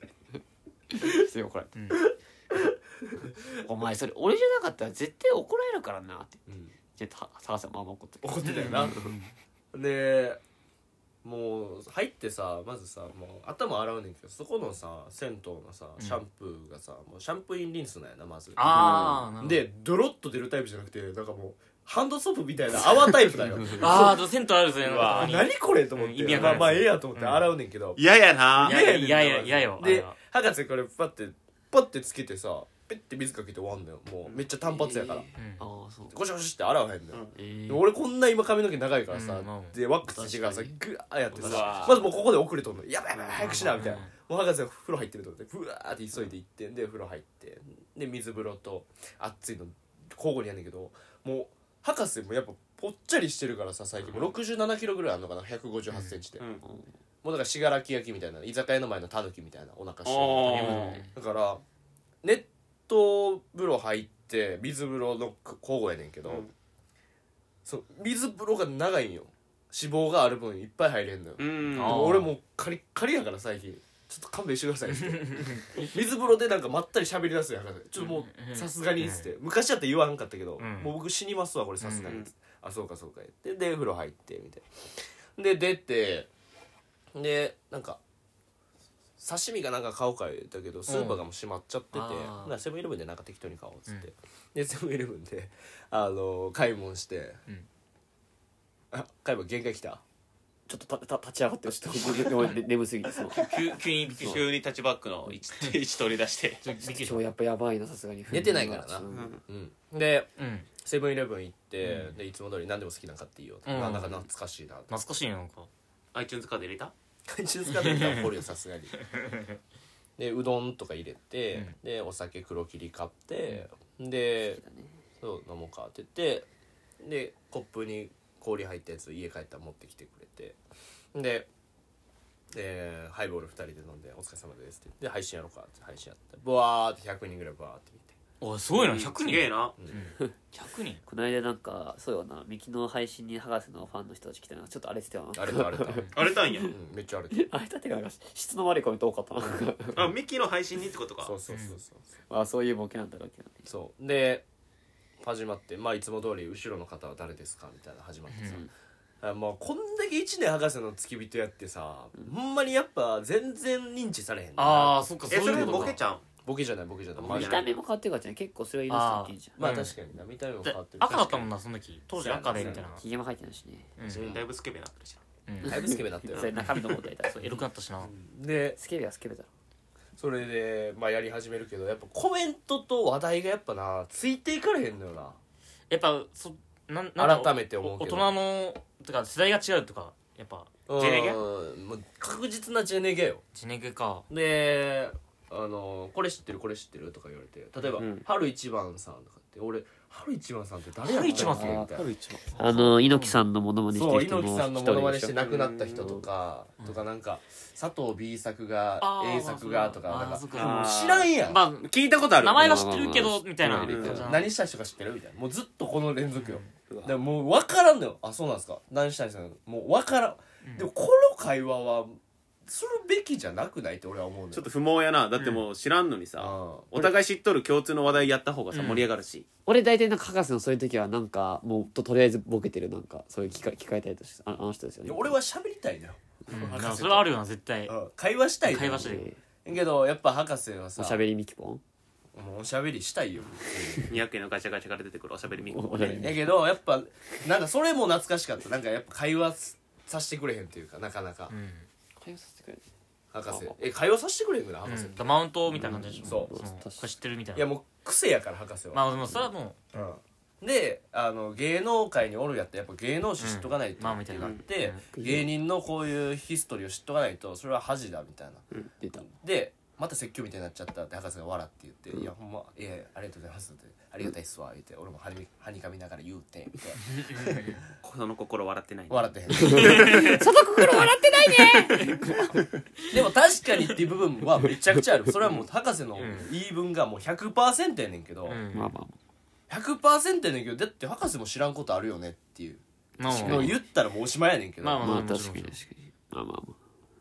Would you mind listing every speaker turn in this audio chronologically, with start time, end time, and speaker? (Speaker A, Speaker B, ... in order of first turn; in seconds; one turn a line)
Speaker A: 0.9-1.7
Speaker B: 1.7-2.0
Speaker A: 3.6-9.1
Speaker C: 6.5-6.8
Speaker C: 8.2-8.9
Speaker B: 8.4-9.3
Speaker C: 9.7-10.4
Speaker C: 11.2-24.2
Speaker B: 16.0-16.2
Speaker B: 18.6-19.6
Speaker A: 18.7-19.3
Speaker A: 23.6-24.0
Speaker B: 23.8-27.5
Speaker D: 24.8-25.3
Speaker C: 25.0-28.0
Speaker D: 26.3-26.6
Speaker D: 28.0-28.8
Speaker B: 28.6-30.1
Speaker C: 28.6-35.3
Speaker A: 34.6-36.1
Speaker B: 35.4-35.6
Speaker C: 36.1-56.4
Speaker A: 37.3-37.8
Speaker B: 39.1-39.8
Speaker A: 40.0-40.8
Speaker D: 41.3-42.1
Speaker A: 41.3-42.1
Speaker D: 43.1-43.5
Speaker B: 43.4-44.1
Speaker D: 56.4-56.6
Speaker A: 56.6-56.9
Speaker C: 57.2-61.6
Speaker D: 60.0-61.0
Speaker B: 60.4-61.1
Speaker C: 62.2-66.5
Speaker D: 66.3-66.5
Speaker C: 67.6-86.3
Speaker D: 71.4-72.2
Speaker B: 71.7-72.3
Speaker B: 74.9-75.7
Speaker B: 78.0-79.3
Speaker B: 80.6-80.9
Speaker B: 81.8-82.1
Speaker D: 81.9-82.3
Speaker C: 87.1-88.0
Speaker C: 89.2-97.4
Speaker B: 90.9-91.2
Speaker B: 91.9-92.5
Speaker C: 98.9-100.0
Speaker A: 100.7-103.5
Speaker B: 103.3-104.5
Speaker D: 104.2-106.6
Speaker B: 106.6-107.2
Speaker A: 106.8-109.4
Speaker C: 108.3-114.9
Speaker D: 109.1-109.4
Speaker B: 110.4-110.7
Speaker B: 111.8-112.1
Speaker B: 113.7-114.2
Speaker B: 114.9-115.7
Speaker D: 116.1-116.9
Speaker C: 117.3-119.0
Speaker B: 117.7-118.3
Speaker B: 119.0-119.5
Speaker C: 120.2-124.6
Speaker A: 124.5-125.0
Speaker C: 125.2-126.5
Speaker C: 127.0-130.6
Speaker C: 131.1-131.5
Speaker C: 132.5-138.1
Speaker B: 138.4-141.0
Speaker D: 138.7-139.7
Speaker A: 141.0-146.7
Speaker C: 145.3-147.4
Speaker D: 146.1-146.8
Speaker A: 147.3-150.1
Speaker D: 149.9-151.3
Speaker C: 151.2-152.1
Speaker B: 151.5-151.8
Speaker A: 152.3-153.7
Speaker C: 153.7-154.4
Speaker C: 155.2-158.7
Speaker B: 158.3-158.6
Speaker C: 159.2-167.6
Speaker B: 164.6-166.0
Speaker D: 165.3-166.2
Speaker D: 167.2-167.7
Speaker A: 167.2-169.6
Speaker B: 168.9-170.0
Speaker C: 169.6-171.5
Speaker B: 170.6-173.0
Speaker C: 172.1-172.9
Speaker A: 172.5-173.9
Speaker B: 174.0-174.3
Speaker C: 174.1-174.5
Speaker D: 174.2-175.2
Speaker B: 175.5-175.9
Speaker C: 175.6-176.6
Speaker A: 175.6-177.6
Speaker D: 176.3-176.6
Speaker B: 177.3-178.1
Speaker C: 178.0-178.8
Speaker A: 178.8-179.5
Speaker C: 180.2-185.4
Speaker B: 185.9-191.1
Speaker C: 187.2-188.3
Speaker C: 190.9-193.4
Speaker D: 191.0-191.4
Speaker B: 193.5-194.3
Speaker C: 194.3-202.1
Speaker D: 197.9-198.2
Speaker B: 201.0-201.9
Speaker A: 201.3-201.9
Speaker D: 201.9-202.8
Speaker A: 202.6-205.4
Speaker B: 202.6-203.4
Speaker C: 203.9-211.6
Speaker D: 205.4-206.2
Speaker B: 209.0-214.5
Speaker D: 210.5-211.3
Speaker D: 211.8-213.0
Speaker A: 212.4-214.3
Speaker D: 213.6-214.3
Speaker C: 213.8-224.7
Speaker B: 216.3-216.7
Speaker D: 216.9-217.2
Speaker B: 220.6-220.9
Speaker D: 224.5-229.4
Speaker B: 225.4-225.6
Speaker C: 226.4-227.1
Speaker B: 228.7-229.1
Speaker A: 229.7-235.3
Speaker C: 235.0-237.3
Speaker B: 236.5-237.9
Speaker C: 237.9-241.2
Speaker B: 238.6-239.3
Speaker A: 238.9-239.4
Speaker A: 241.0-241.8
Speaker C: 242.3-244.1
Speaker D: 244.1-246.3
Speaker A: 245.7-246.5
Speaker C: 246.0-251.5
Speaker B: 251.5-251.9
Speaker A: 252.2-252.8
Speaker C: 253.3-255.3
Speaker A: 253.5-253.8
Speaker B: 254.8-257.7
Speaker A: 255.7-257.1
Speaker C: 256.2-256.5
Speaker C: 257.5-259.1
Speaker B: 258.9-259.8
Speaker C: 259.9-268.6
Speaker B: 263.4-265.1
Speaker A: 265.1-265.5
Speaker A: 269.0-269.3
Speaker C: 269.2-277.8
Speaker B: 277.1-277.8
Speaker D: 278.0-280.2
Speaker C: 279.1-280.2
Speaker A: 279.5-282.6
Speaker B: 279.8-280.4
Speaker B: 281.4-282.4
Speaker C: 283.1-288.6
Speaker B: 286.2-286.5
Speaker B: 288.4-288.9
Speaker A: 288.7-289.2
Speaker C: 289.7-295.2
Speaker B: 293.2-293.8
Speaker A: 293.4-293.8
Speaker B: 294.8-295.8
Speaker A: 295.0-296.8